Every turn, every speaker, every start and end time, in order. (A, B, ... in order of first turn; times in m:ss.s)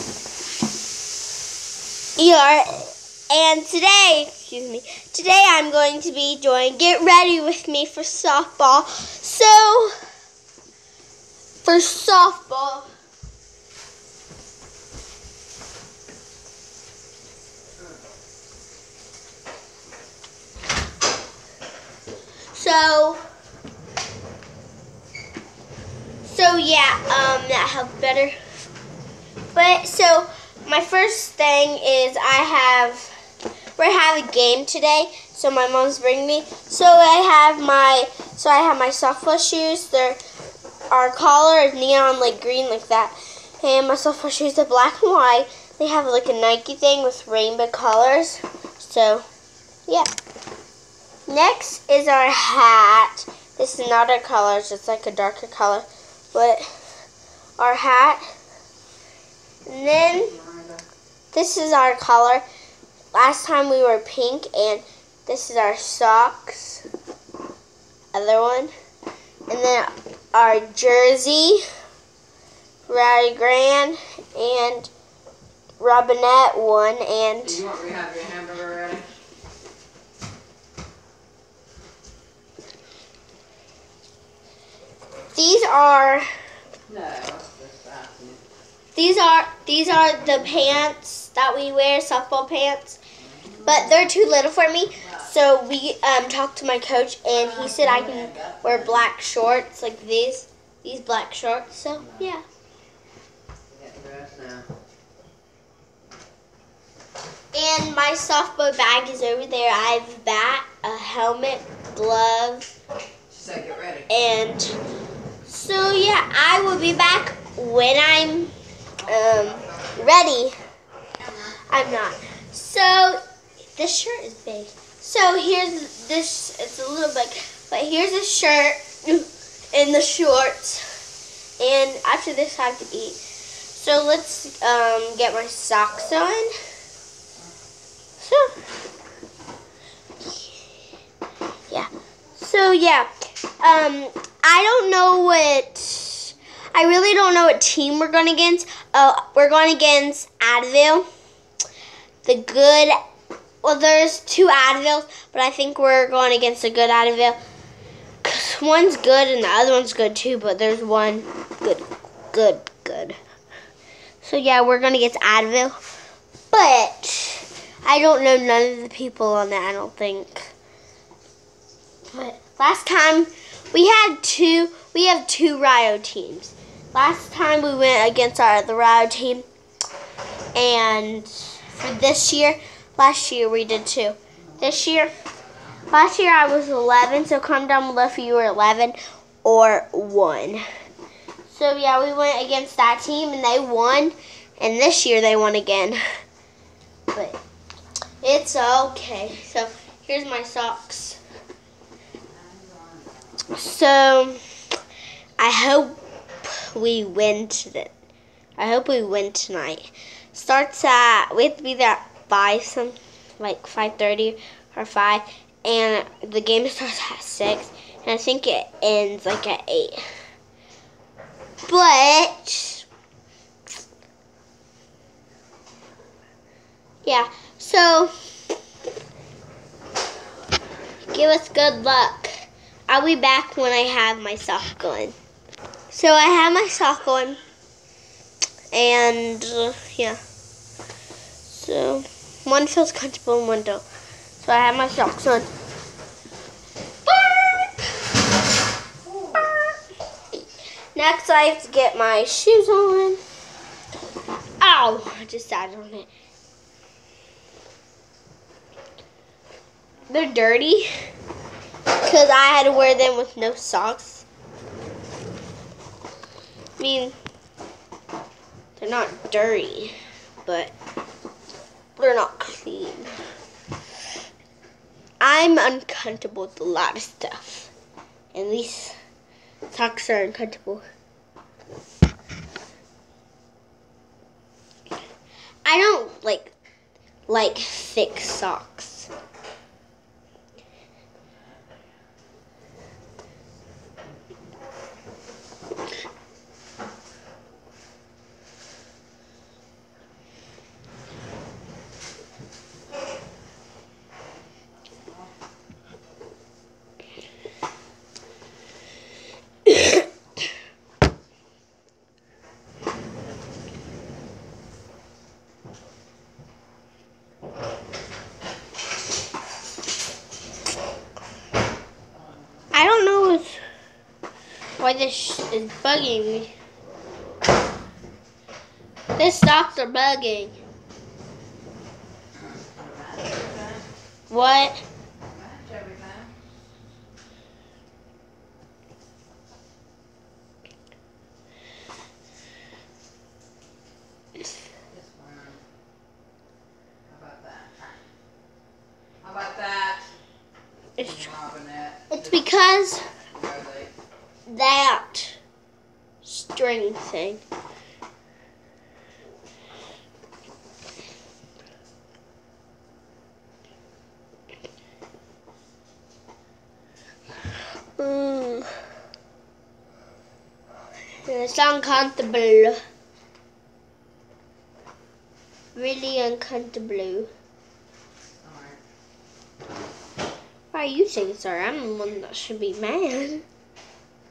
0:02.2-0:10.0 A
0:11.6-0:12.9 A
0:22.5-0:23.2 A
0:26.2-0:28.4 A
0:29.5-0:33.1 A
0:33.8-0:40.2 A
0:40.9-0:49.3 A
0:51.3-0:56.6 A
0:57.6-0:58.2 A
0:59.7-1:00.3 A
1:00.1-1:00.8 B
1:01.3-1:02.4 A
1:03.1-1:06.8 A
1:08.1-1:08.7 A
1:09.5-1:11.6 A
1:12.9-1:14.9 A
1:15.8-1:17.6 A
1:17.4-1:19.1 B
1:25.4-1:26.3 A
1:26.9-1:28.4 B
1:29.0-1:33.0 A
1:33.2-1:34.1 B
1:33.6-1:42.4 A
1:35.0-1:35.3 B
1:37.3-1:39.1 B
1:42.0-1:42.3 B
1:43.7-1:44.7 B
1:47.5-1:52.7 A
1:53.3-1:54.1 B
1:54.1-1:54.7 A
1:55.5-1:58.5 A
1:59.0-1:59.9 B
1:59.1-2:00.6 A
2:01.2-2:01.5 B
2:01.7-2:03.2 A
2:03.8-2:10.8 A
2:11.6-2:13.2 A
2:13.7-2:16.5 A
2:18.2-2:18.5 A
2:21.7-2:31.1 A
2:32.2-2:33.0 A
2:33.6-2:37.4 A
2:38.2-2:43.2 A
2:44.2-2:45.8 A
2:46.5-2:50.5 A
2:52.1-2:59.5 A
3:00.6-3:05.1 A
3:04.4-3:05.4 B
3:05.9-3:10.6 A
3:11.5-3:16.0 A
3:17.1-3:17.4 A
3:18.2-3:21.2 A
3:22.3-3:23.4 B
3:23.5-3:24.4 A
3:25.4-3:27.9 A
3:28.6-3:40.0 A
3:41.7-3:42.9 A
3:47.0-3:48.1 A
3:51.1-3:52.3 A
3:52.9-3:55.2 A
3:55.9-3:57.4 A
3:58.7-4:00.2 A
4:01.4-4:03.8 A
4:04.4-4:05.5 A
4:07.1-4:07.9 A
4:09.1-4:09.8 A
4:11.0-4:13.2 A
4:14.6-4:16.1 A
4:20.1-4:21.0 A
4:22.0-4:24.2 A
4:26.8-4:27.2 A
4:28.8-4:30.7 A
4:32.0-4:33.2 A
4:35.2-4:37.7 A
4:38.3-4:39.0 A
4:39.7-4:40.8 A
4:45.6-4:46.5 A
4:47.3-4:49.1 A
5:22.7-5:23.6 A
5:24.8-5:26.5 A
5:29.2-5:30.6 A
5:32.4-5:33.8 B
5:34.3-5:34.8 A
5:35.2-5:36.3 B
5:44.9-5:45.6 B
5:47.1-5:48.0 B
5:49.2-5:50.1 B
5:51.0-5:52.5 B
5:51.0-5:51.3 A
5:52.1-5:53.0 A
5:53.3-5:53.9 B
5:54.5-5:55.4 A
5:56.2-5:57.4 A
6:08.0-6:08.7 A
6:11.2-6:12.8 A
6:15.8-6:17.3 A
6:18.4-6:18.8 B
6:20.7-6:23.4 A